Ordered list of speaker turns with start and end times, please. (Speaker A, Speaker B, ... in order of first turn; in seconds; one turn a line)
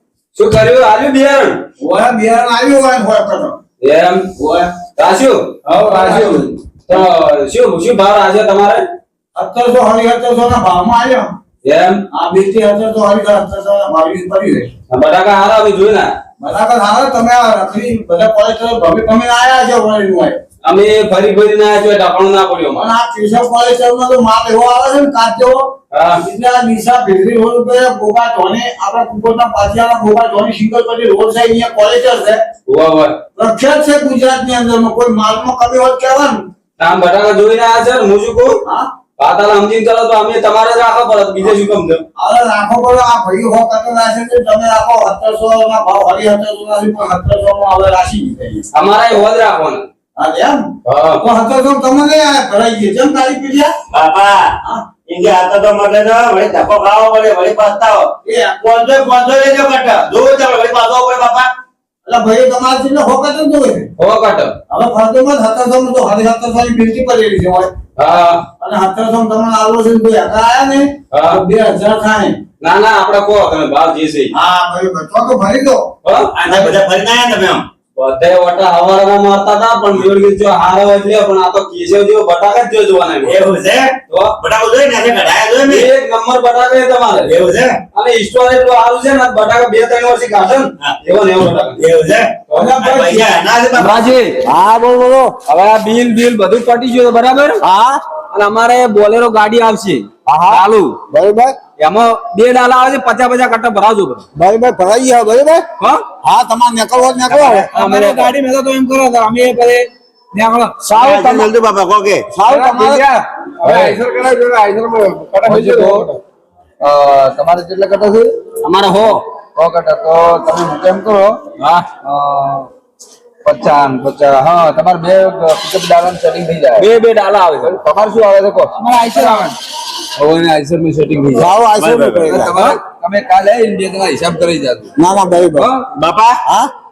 Speaker A: 0.3-1.6
Speaker B: 1.8-3.6
Speaker A: 3.8-4.2
Speaker B: 4.4-4.7
Speaker A: 5.0-5.5
Speaker C: 5.7-6.4
Speaker B: 5.8-7.0
Speaker A: 6.8-8.8
Speaker B: 9.3-11.3
Speaker A: 11.6-12.0
Speaker B: 12.1-14.7
Speaker A: 14.9-16.1
Speaker B: 16.4-20.4
Speaker A: 20.6-22.9
Speaker B: 22.7-25.6
Speaker A: 25.9-26.2
Speaker B: 26.2-32.4
Speaker A: 32.7-33.1
Speaker B: 33.4-36.4
Speaker A: 36.8-38.6
Speaker A: 39.2-42.0
Speaker B: 42.1-48.7
Speaker A: 48.7-49.9
Speaker B: 50.2-50.6
Speaker A: 50.8-51.2
Speaker B: 51.2-53.7
Speaker D: 53.9-61.5
Speaker B: 58.2-58.7
Speaker B: 62.0-63.9
Speaker A: 64.0-64.5
Speaker B: 64.7-67.7
Speaker A: 68.0-68.4
Speaker B: 68.6-72.4
Speaker A: 71.1-71.4
Speaker A: 72.6-74.3
Speaker B: 74.3-75.9
Speaker A: 76.0-76.7
Speaker D: 76.3-77.7
Speaker A: 78.0-83.3
Speaker D: 83.2-85.9
Speaker A: 84.1-84.3
Speaker A: 85.7-87.3
Speaker D: 87.2-87.8
Speaker A: 87.9-91.8
Speaker D: 91.8-94.1
Speaker A: 92.5-92.8
Speaker B: 92.5-93.2
Speaker A: 93.8-94.4
Speaker B: 94.4-95.3
Speaker A: 95.5-97.6
Speaker B: 97.6-98.0
Speaker A: 98.3-101.0
Speaker B: 100.2-101.5
Speaker A: 101.8-104.2
Speaker B: 104.3-105.6
Speaker B: 106.2-107.7
Speaker D: 107.3-107.7
Speaker A: 107.7-108.3
Speaker E: 107.7-110.7
Speaker B: 110.9-111.5
Speaker D: 110.9-112.2
Speaker B: 112.3-113.0
Speaker C: 112.5-116.2
Speaker E: 113.6-114.0
Speaker F: 115.6-116.0
Speaker F: 116.9-118.2
Speaker A: 118.6-119.2
Speaker F: 119.6-121.4
Speaker A: 121.6-121.8
Speaker F: 122.0-122.7
Speaker F: 123.4-126.9
Speaker A: 126.8-127.8
Speaker F: 127.7-128.7
Speaker E: 128.8-129.5
Speaker F: 130.2-131.4
Speaker B: 131.3-132.8
Speaker D: 131.7-132.5
Speaker F: 132.3-134.8
Speaker B: 135.0-135.7
Speaker D: 135.9-136.4